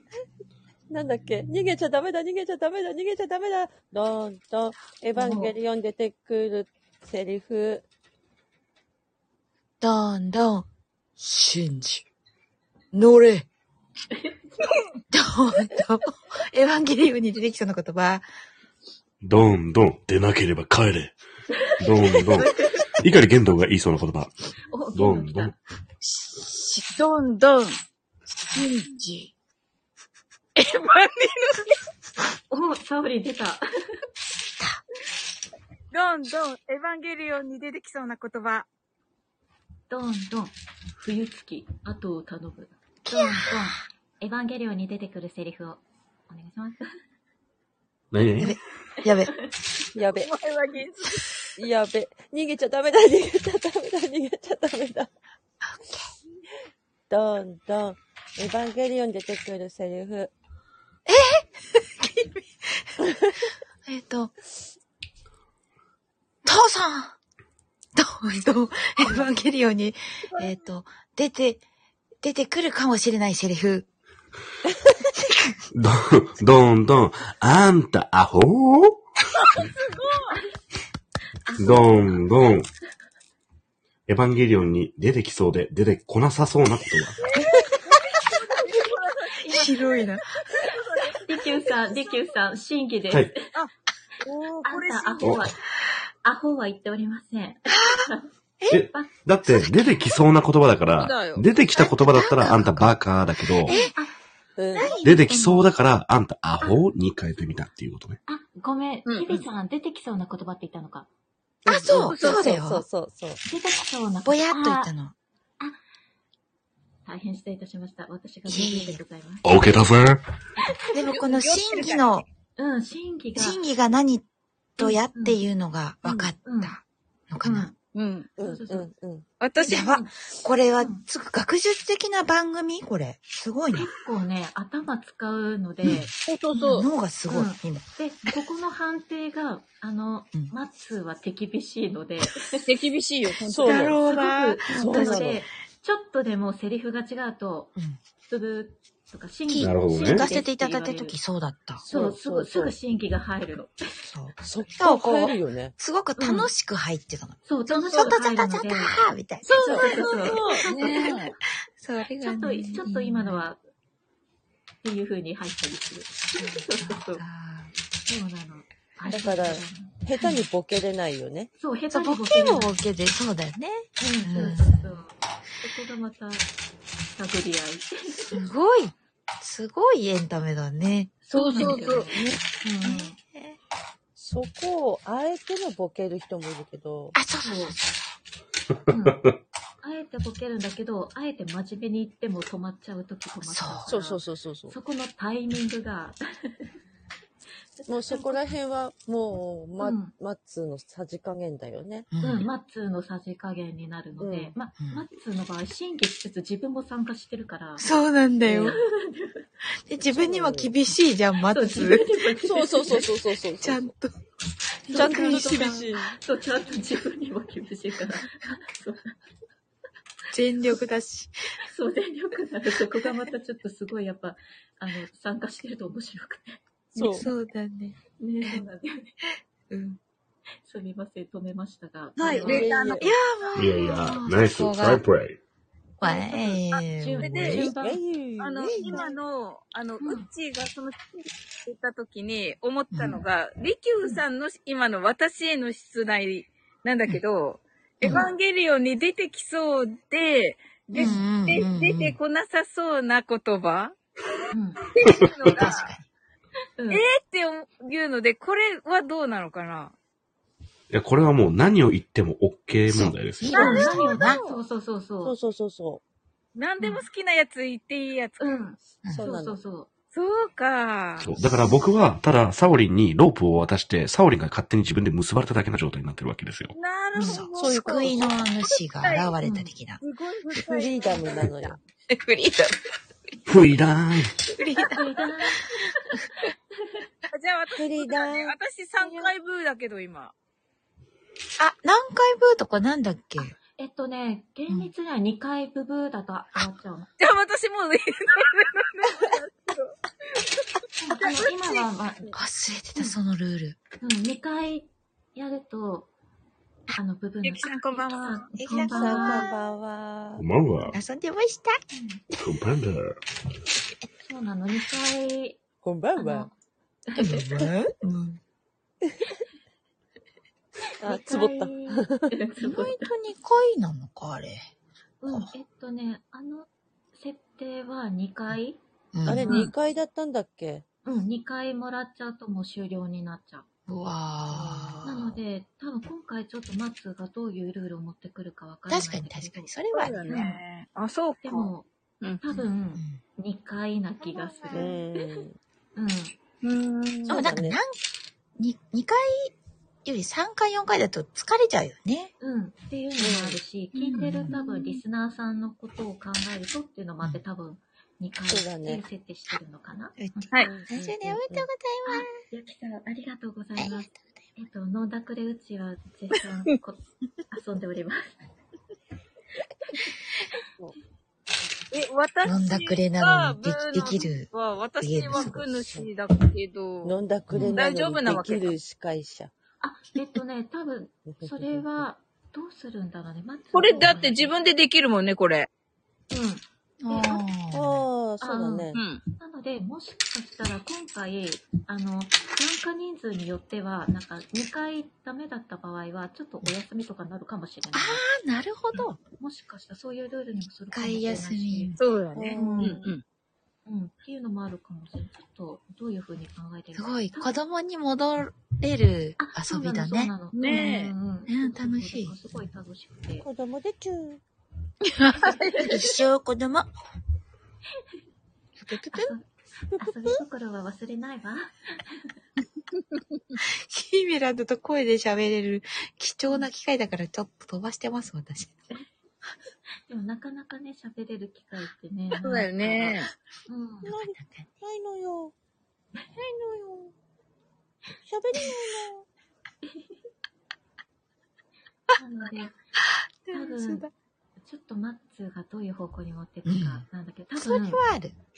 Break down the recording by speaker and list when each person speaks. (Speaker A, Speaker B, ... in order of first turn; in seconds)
Speaker A: 0.9-7.8, 50.0-50.3, 51.6-55.1, 57.1-60.3, 104.6-105.0, 111.7-113.4, 128.4-129.3, 143.5-144.0, 144.7-145.4, 151.8-152.8, 154.4-155.7, 159.6-160.8, 169.1-171.5, 182.1-182.4, 184.2-187.2, 193.9-194.8, 197.9-202.1, 204.2-204.5, 208.5-208.8, 210.1-210.7, 212.4-213.8, 214.9-216.2, 226.9-227.3, 232.2-233.1, 237.3-239.1, 265.2-266.0, 269.1-269.6, 277.6-278.3, 280.6-281.8, 287.8-288.6, 308.8-310.5, 315.8-316.5, 321.0-322.4, 329.2-330.9, 334.5-335.1, 344.7-345.6, 347.3-347.8, 353.2-353.6, 358.5-359.0, 360.6-361.7, 375.4-376.1, 377.0-379.5, 381.3-382.1, 383.9-384.1, 387.7-389.0, 402.3-403.1, 413.4-414.4, 434.1-435.5, 436.4-437.1, 438.2-439.3
Speaker B: 5.1-5.6, 14.1-15.0, 22.4-22.8, 24.7-25.6, 32.5-33.6, 39.9-46.8, 89.4-89.7, 91.2-93.4, 94.6-95.6, 96.2-98.3, 103.7-104.1, 104.7-105.2, 108.3-111.1, 113.4-114.9, 117.1-119.8, 122.6-123.6, 124.8-125.4, 126.5-126.8, 127.4-127.8, 128.4-128.9, 129.7-130.1, 130.8-131.0, 133.7-136.8, 137.3-142.7, 143.7-147.7, 148.3-151.2, 151.9-153.8, 156.2-156.5, 157.4-159.0, 159.6-161.4, 162.2-163.6, 164.8-167.2, 168.1-170.4, 171.6-172.8, 174.0-176.5, 177.2-178.4, 181.2-183.2, 187.4-187.8, 188.9-189.3, 189.8-196.7, 197.8-198.5, 199.8-200.1, 202.2-207.9, 208.6-209.4, 211.4-213.1, 214.8-219.2, 221.6-227.3, 228.2-229.1, 230.6-233.0, 236.0-238.0, 240.0-240.3, 254.5-254.8, 256.8-257.0, 263.5-265.4, 266.8-267.1, 268.4-269.9, 277.1-277.4, 279.4-279.7, 284.8-285.9, 293.8-297.1, 301.0-302.4, 304.0-306.1, 306.9-309.5, 311.9-312.2, 314.2-315.6, 316.2-316.5, 317.1-317.5, 321.0-323.1, 325.2-328.8, 329.4-329.7, 331.1-333.7, 335.0-339.7, 340.3-340.6, 341.4-341.9, 342.4-345.4, 346.0-346.4, 352.4-360.6, 362.1-368.4, 369.9-370.1, 377.5-377.8, 379.8-384.6, 386.3-387.5, 388.4-398.2, 398.9-402.0, 402.5-403.1, 403.9-407.6, 409.4-413.5, 419.1-419.5, 420.0-422.3, 430.1-434.1, 442.2-442.8, 443.5-444.1, 444.6-448.0
Speaker C: 9.8-10.7, 11.2-12.1, 12.9-13.5, 15.1-18.2, 28.6-29.3, 43.1-43.7, 48.4-49.5, 61.1-62.9, 63.9-64.3, 66.4-67.2, 68.0-71.6, 72.2-73.9, 75.2-75.6, 81.5-82.0, 89.5-90.2, 97.7-98.1, 99.5-99.7, 101.8-103.0, 103.6-103.9, 104.8-105.7, 111.7-112.8, 114.2-115.1, 118.5-119.0, 120.9-122.2, 123.4-124.2, 124.8-127.7, 129.6-133.9, 135.8-136.1, 136.6-137.8, 143.6-145.3, 149.5-151.8, 154.0-159.6, 160.8-161.2, 161.8-163.4, 166.4-167.7, 171.9-175.0, 178.3-181.9, 182.8-183.6, 187.2-187.8, 193.4-193.9, 202.1-202.5, 204.8-205.1, 207.8-208.8, 209.9-212.1, 213.6-214.2, 214.9-215.7, 220.3-221.3, 227.1-228.6, 229.7-230.0, 233.0-235.0, 236.0-237.5, 242.9-243.2, 250.9-252.2, 255.2-256.1, 262.9-264.4, 277.2-280.0, 282.1-283.4, 284.5-285.0, 291.6-293.6, 302.3-303.8, 308.6-309.5, 310.9-311.8, 317.1-318.4, 322.6-324.7, 329.1-329.5, 333.9-335.4, 338.9-340.3, 343.0-343.2, 347.3-348.0, 348.6-349.5, 350.1-352.3, 354.1-354.6, 360.2-362.4, 363.8-364.2, 372.4-374.5, 375.0-375.7, 377.5-377.8, 387.0-388.1, 397.9-399.2, 400.9-402.0, 407.0-410.9, 411.5-412.4, 415.2-416.9, 418.8-419.4, 423.9-428.8, 434.4-434.7, 443.4-444.1, 446.7-447.1, 447.6-448.4
Speaker D: 19.2-21.1, 21.8-24.3, 24.9-25.5, 48.1-48.6, 75.7-79.0, 81.6-82.7, 84.1-87.2, 95.2-95.5, 98.7-103.8, 105.0-108.2, 119.4-120.2, 149.6-150.3, 233.6-235.4, 260.9-263.8, 271.2-276.8, 283.5-284.4, 310.4-310.9, 312.4-313.2
Speaker E: 26.0-27.8, 28.6-29.1, 30.6-31.8, 35.9-38.7, 50.1-51.3, 70.3-70.6, 79.3-80.4, 87.2-91.6, 94.2-95.4, 101.0-101.5, 109.1-109.4, 111.9-112.6, 121.1-122.2, 126.0-126.3, 127.9-128.3, 129.4-130.0, 136.3-136.9, 142.5-144.0, 159.4-161.3, 181.3-182.2, 232.2-233.2, 236.8-237.7, 238.4-254.0, 254.9-255.9, 256.9-259.9, 263.5-264.6, 266.6-268.6, 270.1-271.3, 276.8-279.4, 280.0-281.5, 287.3-290.3, 297.2-301.8, 307.4-308.5, 339.9-341.7, 342.2-342.6, 346.6-347.4, 371.9-377.2, 377.8-378.8, 383.7-385.7, 388.9-389.2, 402.0-403.2, 410.5-411.1, 415.0-416.2, 432.4-433.3